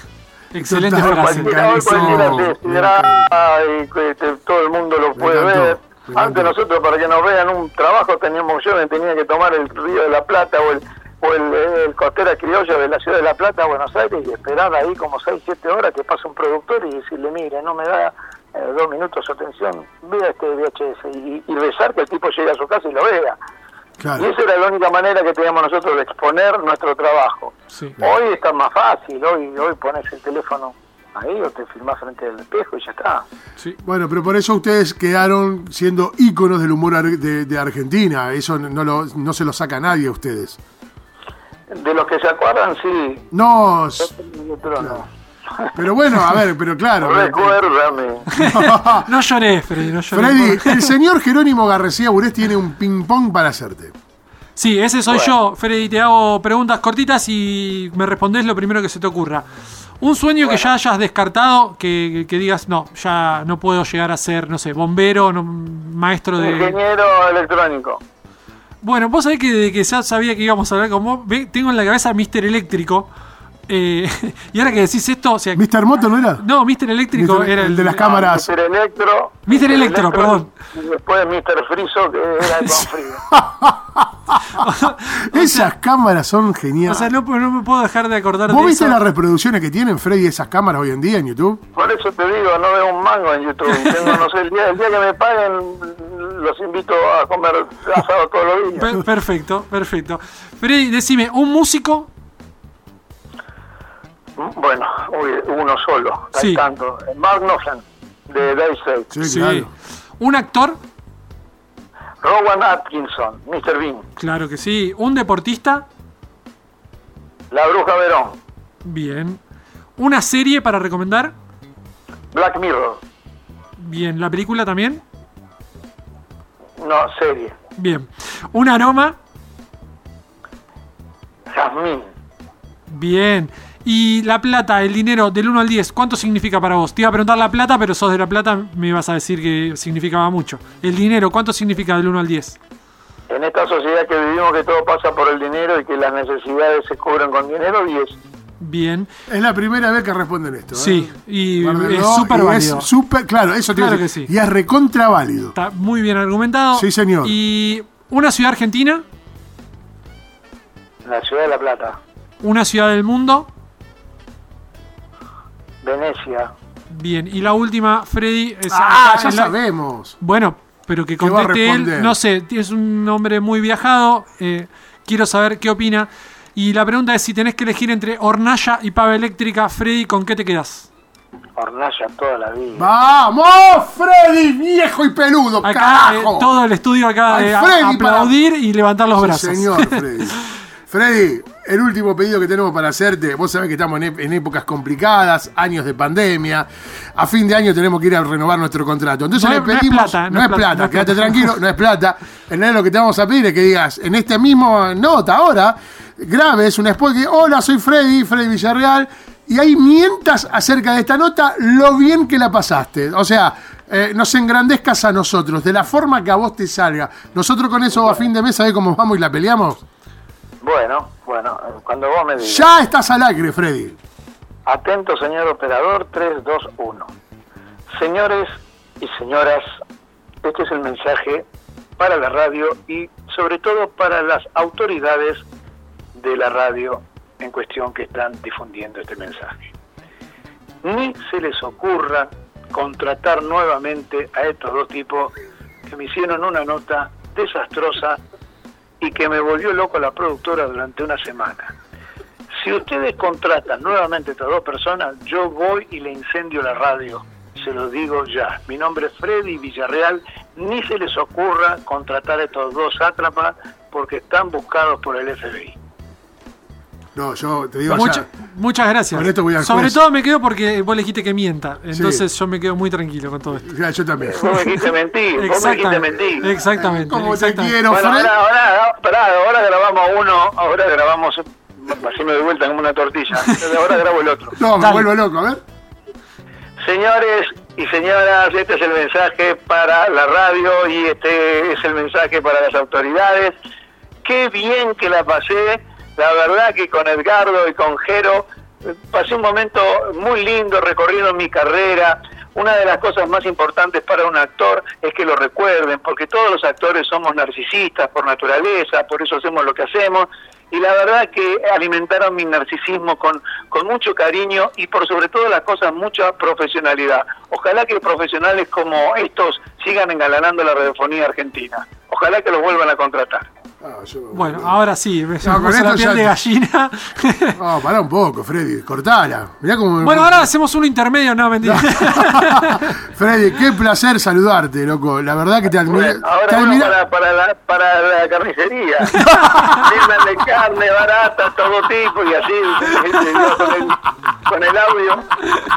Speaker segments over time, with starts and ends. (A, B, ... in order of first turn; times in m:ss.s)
0:00.5-0:02.4 A
0:00.6-0:03.3 B
0:01.0-0:23.4 C
0:05.2-0:06.5 B
0:24.0-0:24.3 B
0:24.2-0:33.2 C
0:27.7-0:28.0 A
0:33.8-0:40.6 B
0:41.7-0:43.2 C
0:43.3-0:44.1 B
0:44.0-0:45.7 C
0:45.7-0:47.6 B
0:47.0-0:48.3 C
0:48.3-0:50.9 A
0:48.3-0:49.1 B
0:50.1-0:53.9 B
0:54.6-0:59.4 A
0:55.1-0:55.3 C
1:00.0-1:06.8 A
1:00.4-1:00.7 C
1:06.4-1:08.0 C
1:08.8-1:13.1 A
1:13.7-1:15.6 A
1:15.6-1:16.4 B
1:16.4-1:18.1 A
1:17.1-1:18.5 B
1:18.0-1:23.2 C
1:19.5-1:20.5 A
1:23.3-1:27.1 B
1:24.5-1:25.7 A
1:26.8-1:29.0 A
1:28.5-1:31.6 B
1:31.7-1:39.0 C
1:33.7-1:34.2 A
1:38.8-1:42.1 A
1:44.4-1:49.1 C
1:46.3-1:46.6 A
1:49.1-1:49.7 B
1:49.2-1:50.8 A
1:52.2-1:54.1 C
1:54.2-1:55.8 A
1:57.5-1:58.4 C
1:58.8-1:59.4 A
2:00.0-2:01.3 A
2:02.3-2:03.0 C
2:03.8-2:05.0 A
2:06.8-2:07.6 C
2:07.8-2:09.2 A
2:11.5-2:12.1 C
2:12.9-2:22.6 A
2:23.3-2:28.2 C
2:28.6-2:29.1 A
2:29.3-2:35.6 B
2:30.7-2:32.9 A
2:33.7-2:34.3 A
2:35.5-2:39.0 A
2:36.7-2:37.3 B
2:41.0-2:42.0 C
2:42.4-2:43.5 A
2:45.8-2:46.5 C
2:46.9-2:49.5 A
2:48.7-2:50.1 B
2:50.2-3:00.9 A
2:51.2-2:52.2 B
3:01.6-3:02.9 C
3:02.7-3:06.5 B
3:05.6-3:10.3 A
3:07.3-3:08.4 B
3:09.2-3:39.8 B
3:19.3-3:21.5 A
3:40.6-3:42.7 C
3:42.4-3:44.0 B
3:44.6-3:47.1 C
3:47.9-3:49.8 C
3:50.4-3:51.4 C
3:52.0-3:55.4 C
3:56.1-3:59.7 C
4:00.8-4:05.3 C
4:05.8-4:08.2 C
4:09.0-4:11.7 C
4:12.6-4:25.8 C
4:27.2-4:28.2 B
4:27.9-4:33.7 A
4:29.1-4:30.0 B
4:31.9-4:32.2 B
4:33.6-4:34.6 B
4:34.2-4:36.5 C
4:35.4-4:37.8 A
4:36.7-4:38.3 B
4:37.9-4:44.6 C
4:44.6-4:45.6 B
4:44.8-4:45.1 A
4:46.8-4:53.6 C
4:54.2-5:23.5 C
5:23.8-5:24.8 B
5:24.3-5:27.6 A
5:25.4-5:26.4 B
5:27.5-5:30.5 B
5:30.0-5:33.0 A
5:31.6-5:36.9 B
5:35.8-5:45.3 C
5:39.2-5:39.6 A
5:39.2-5:39.7 B